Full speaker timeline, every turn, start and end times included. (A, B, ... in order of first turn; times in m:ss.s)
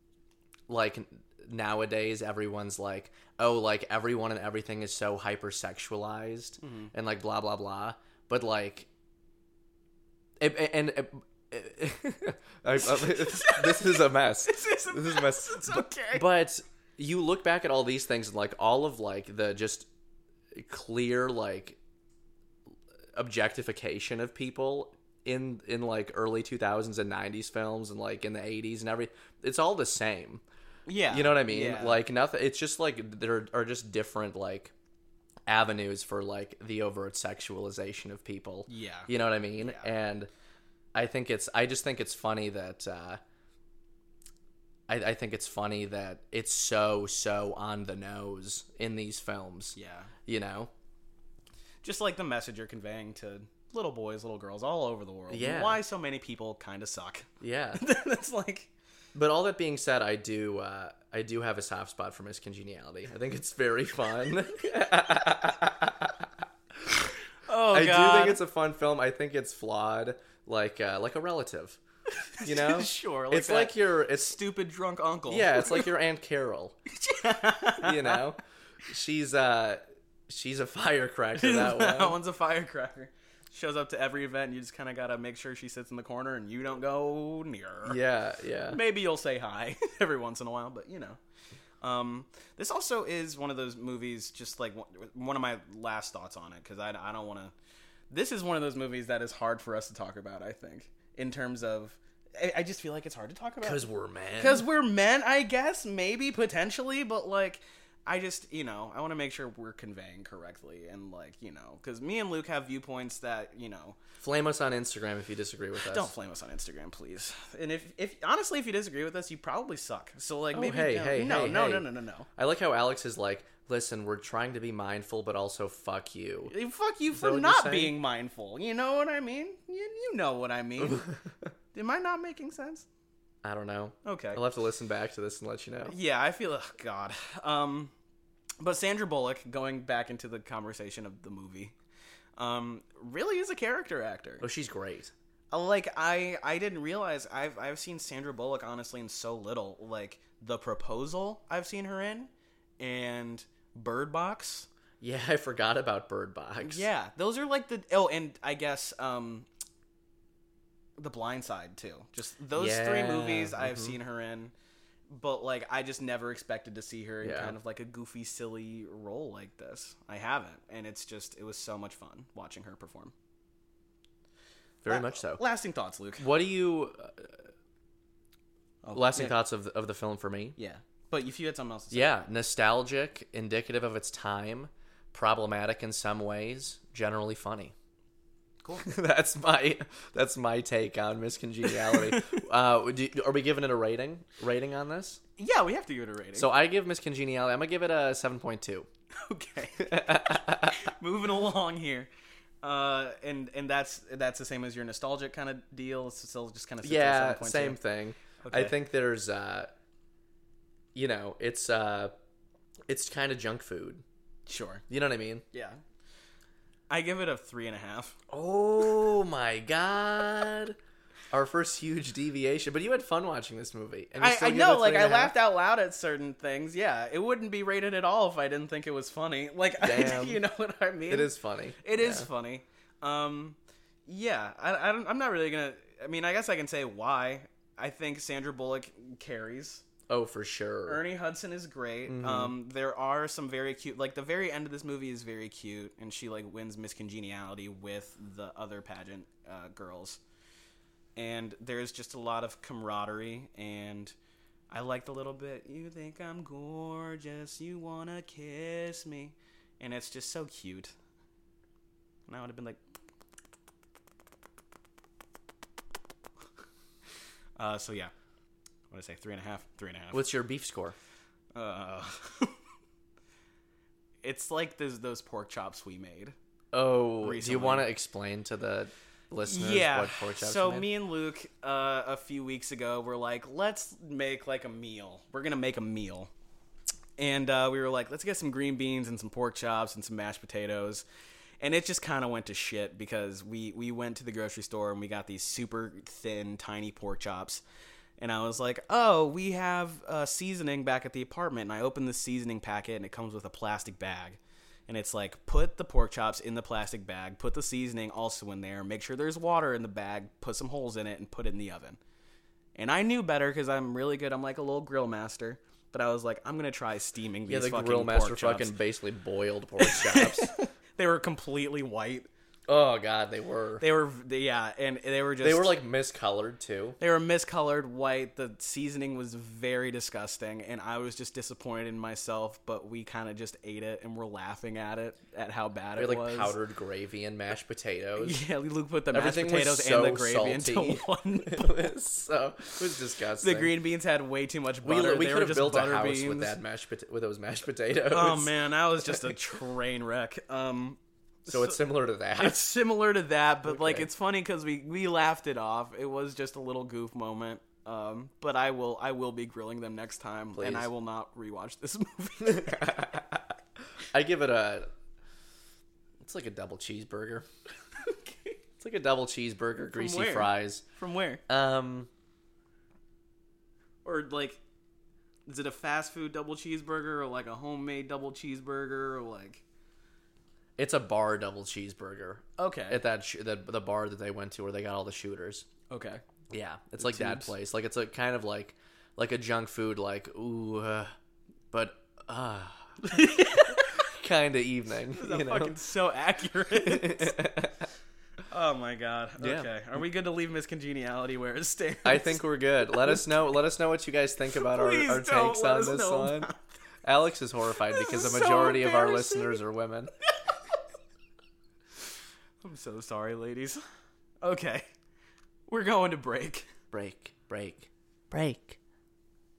0:00.7-0:08.9 A
0:06.6-0:06.9 B
0:10.4-0:19.9 A
0:12.8-0:16.3 B
0:20.5-0:21.8 A
0:23.1-0:30.4 A
0:30.9-0:32.0 B
0:31.1-0:34.7 A
0:35.5-0:40.3 A
0:38.7-0:39.9 B
0:40.9-0:43.2 A
0:44.9-0:50.7 A
0:49.7-0:50.1 B
0:51.8-0:58.7 B
0:55.3-0:55.8 A
0:57.4-0:57.8 A
0:59.1-1:06.3 A
1:07.5-1:08.4 B
1:07.7-1:11.8 A
1:12.3-1:15.9 B
1:12.4-1:14.4 A
1:15.3-1:16.8 A
1:16.9-1:18.2 B
1:17.8-1:22.2 A
1:21.4-1:28.0 B
1:27.8-1:28.8 A
1:28.7-1:31.2 B
1:31.8-1:37.5 B
1:38.1-1:43.9 B
1:43.6-1:44.6 A
1:44.4-1:54.0 B
1:54.2-1:56.1 A
1:55.8-2:02.3 B
2:00.5-2:06.5 A
2:06.5-2:11.1 B
2:07.1-2:07.9 A
2:10.8-2:11.1 A
2:11.7-2:12.8 B
2:13.4-2:15.9 A
2:14.0-2:14.4 B
2:15.9-2:17.9 B
2:18.6-2:21.7 B
2:22.4-2:24.5 B
2:24.4-2:25.1 A
2:25.5-2:34.7 B
2:35.0-2:36.9 A
2:36.6-2:39.5 B
2:41.0-2:44.5 B
2:42.6-2:44.0 A
2:45.1-2:53.1 B
2:47.2-2:47.6 A
2:54.8-2:55.4 A
2:54.9-2:56.3 B
2:56.2-2:57.5 A
2:58.8-2:59.4 B
2:58.9-3:00.5 A
3:00.6-3:02.1 B
3:01.9-3:07.7 A
3:08.6-3:08.9 B
3:08.8-3:15.2 A
3:11.9-3:12.2 B
3:15.4-3:16.5 B
3:16.4-3:18.9 A
3:19.2-3:22.1 B
3:19.8-3:20.8 A
3:22.6-3:27.8 B
3:26.8-3:29.7 A
3:28.4-3:28.7 B
3:30.9-3:32.1 A
3:32.9-3:34.0 A
3:34.5-3:34.8 B
3:34.9-3:35.4 A
3:35.5-3:35.8 B
3:36.9-3:38.2 B
3:38.3-3:40.8 A
3:41.3-3:45.3 A
3:44.2-3:59.8 B
3:49.8-3:50.4 A
3:51.1-3:52.2 A
4:00.1-4:01.0 A
4:00.9-4:10.2 B
4:02.1-4:02.5 A
4:11.2-4:14.1 B
4:14.7-4:20.9 B
4:22.3-4:22.8 B
4:27.6-4:28.1 B
4:28.9-4:30.2 B
4:30.1-4:30.9 A
4:31.5-4:32.6 B
4:34.2-4:36.4 B
4:36.7-4:40.9 A
4:37.2-4:37.9 B
4:39.4-4:46.3 B
4:47.2-4:51.0 B
4:51.6-4:57.6 B
4:58.2-5:12.0 B
5:12.7-5:18.7 B
5:17.5-5:20.5 A
5:19.8-5:22.3 B
5:22.7-5:23.8 A
5:23.8-5:25.8 B
5:25.4-5:27.0 A
5:27.0-5:36.6 B
5:36.0-5:38.4 A
5:38.2-5:41.9 B
5:39.1-5:43.7 A
5:43.4-5:46.6 B
5:44.8-5:48.5 A
5:48.1-5:51.7 B
5:51.5-5:52.6 A
5:52.4-6:03.1 B
5:53.6-5:54.1 A
6:00.6-6:00.9 A
6:02.4-6:04.9 A
6:06.2-6:07.5 A
6:08.0-6:08.6 B
6:08.8-6:10.8 A
6:09.9-6:11.4 B
6:11.5-6:12.1 A
6:14.0-6:14.6 B
6:15.4-6:19.6 B
6:20.8-6:25.7 A
6:22.6-6:23.0 B
6:25.9-6:26.2 B
6:26.5-6:31.1 A
6:27.0-6:27.5 B
6:31.7-6:33.0 A
6:33.0-6:34.0 B
6:33.9-6:35.8 A
6:35.1-6:37.4 B
6:36.8-6:37.9 A
6:38.5-6:43.2 B
6:39.4-6:39.7 A
6:42.0-6:46.5 A
6:44.6-6:46.7 B
6:47.0-6:50.1 A
6:47.9-6:49.6 B
6:52.6-6:53.8 B
6:54.4-6:54.8 B
6:55.7-6:56.7 B
6:56.9-6:58.8 A